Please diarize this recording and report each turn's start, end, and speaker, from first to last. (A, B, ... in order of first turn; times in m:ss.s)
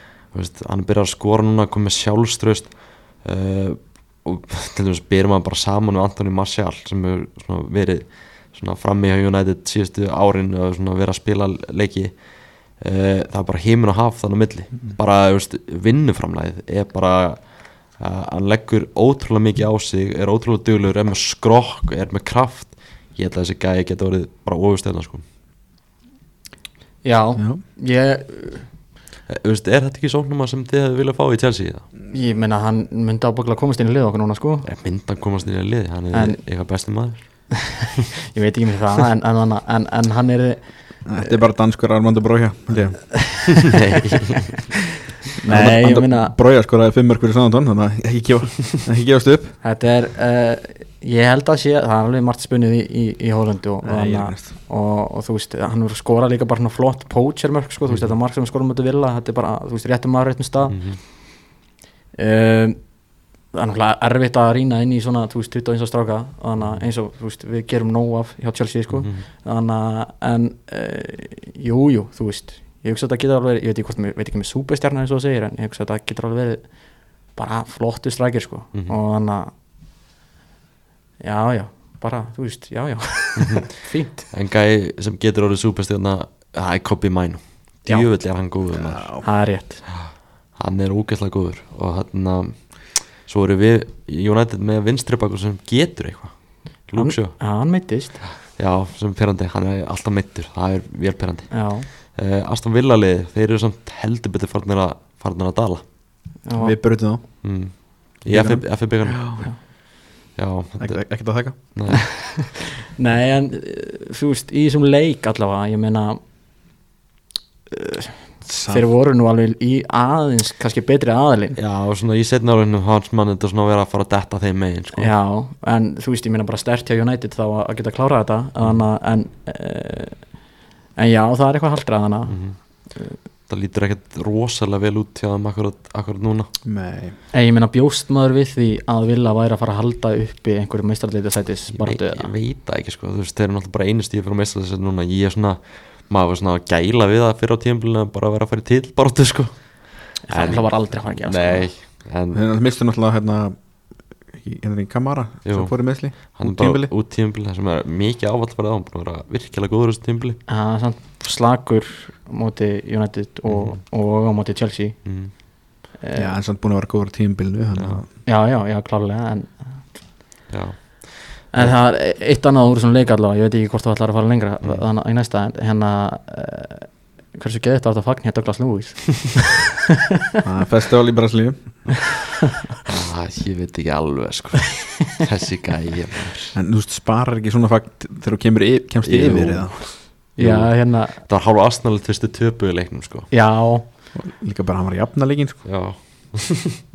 0:00.3-0:12.2 A
0:12.8-0:25.2 A
0:27.0-0:28.7 B
0:29.3-0:31.9 A
0:32.1-0:34.6 B
0:34.6-0:37.2 A
0:36.1-0:36.4 B
0:38.3-0:41.4 B
0:41.0-0:43.2 C
0:43.2-0:43.8 B
0:43.5-0:44.6 A
0:45.4-0:46.3 B
0:45.4-0:49.6 C
0:49.6-1:00.8 B
0:53.8-0:54.5 C
1:00.7-1:01.0 A
1:02.2-1:02.8 B
1:03.5-1:16.6 B
1:08.9-1:09.2 A
1:17.4-1:19.5 B
1:21.2-1:24.3 B
1:23.4-1:23.7 A
1:24.3-1:29.1 A
1:28.7-1:29.2 C
1:29.2-1:29.8 B
1:29.9-1:36.3 A
1:36.9-1:37.4 A
1:37.0-1:38.2 B
1:38.5-1:45.8 A
1:41.5-1:41.9 B
1:46.4-1:46.8 B
1:46.6-1:47.2 C
1:47.4-1:49.4 A
1:48.3-1:49.4 C
1:50.4-1:51.0 A
1:50.8-1:51.6 C
1:51.7-1:52.1 A
1:52.2-1:56.2 B
1:57.7-2:01.6 B
1:58.4-1:58.9 C
2:01.6-2:05.1 A
2:05.0-2:10.2 B
2:11.0-2:12.4 B
2:12.3-2:12.6 A
2:13.5-2:16.5 A
2:16.6-2:17.1 C
2:17.3-2:22.3 B
2:21.7-2:32.4 A
2:30.2-2:31.7 B
2:32.3-2:33.6 C
2:34.3-2:36.9 C
2:35.4-2:40.4 A
2:40.5-2:45.0 B
2:43.5-2:43.8 A
2:45.0-2:45.3 A
2:46.0-2:46.3 B
2:46.1-2:48.1 C
2:47.8-2:48.0 A
2:48.2-2:49.6 B
2:50.5-2:51.7 A
2:51.5-2:59.7 B
3:00.4-3:01.6 C
3:02.8-3:06.6 A
3:06.5-3:09.9 C
3:09.0-3:13.3 A
3:10.4-3:11.2 B
3:13.3-3:13.8 B
3:14.1-3:15.6 C
3:15.6-3:16.8 A